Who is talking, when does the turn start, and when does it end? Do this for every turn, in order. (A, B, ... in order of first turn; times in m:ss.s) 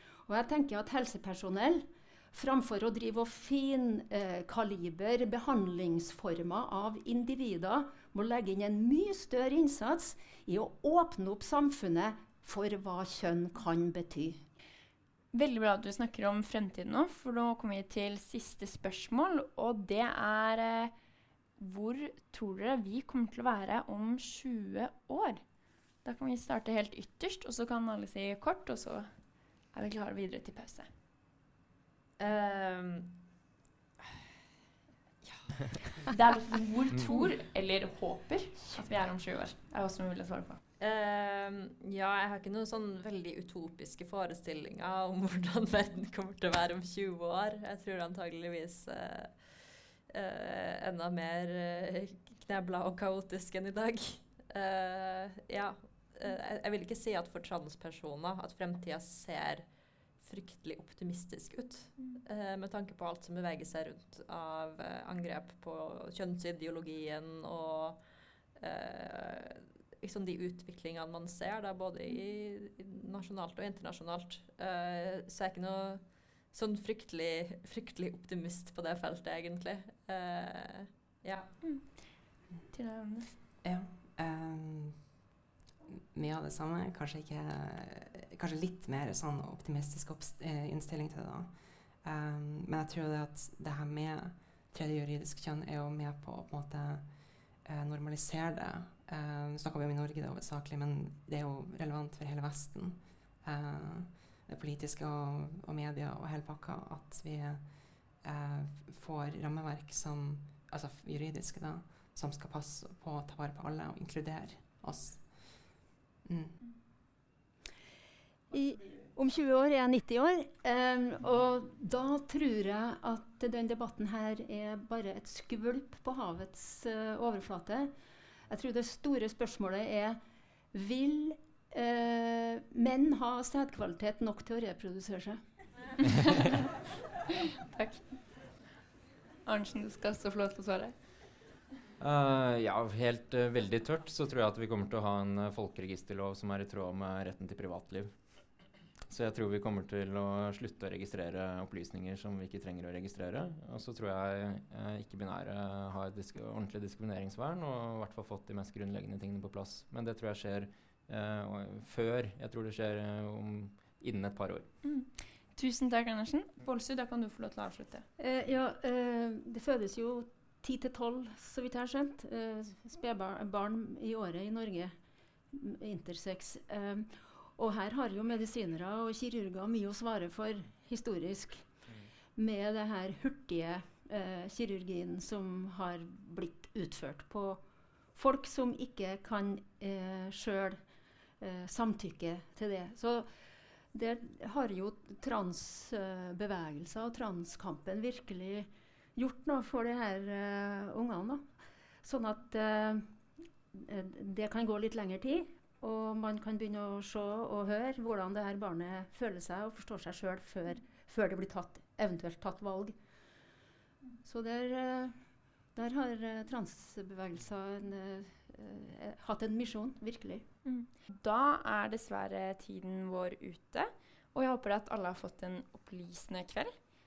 0:00.3-0:14.4 A
0:15.3-0:20.9 B
0:21.6-0:25.4 B
0:26.0-0:30.9 B
0:32.2-0:33.2 C
0:35.2-0:35.6 C
0:36.1-0:40.6 B
0:40.8-0:49.6 C
0:50.1-0:59.7 C
1:00.2-1:08.0 C
1:08.6-1:21.5 C
1:21.6-1:22.2 B
1:22.7-1:23.3 B
1:23.6-1:25.0 D
1:25.9-1:37.1 D
1:37.6-1:47.7 D
1:48.2-1:56.6 D
1:58.5-2:07.9 A
2:08.5-2:10.2 A
2:10.7-2:15.4 A
2:17.6-2:18.2 B
2:19.5-2:20.9 B
2:22.0-2:28.1 E
2:29.1-2:44.7 E
2:44.8-2:48.1 B
2:48.2-2:54.9 A
2:55.5-3:01.7 A
3:02.4-3:07.6 A
3:08.2-3:10.8 A
3:11.4-3:13.3 A
3:13.9-3:21.4 A
3:22.0-3:23.1 A
3:23.7-3:33.0 A
3:34.2-3:35.2 A
3:35.8-3:40.5 A
3:40.6-3:46.8 B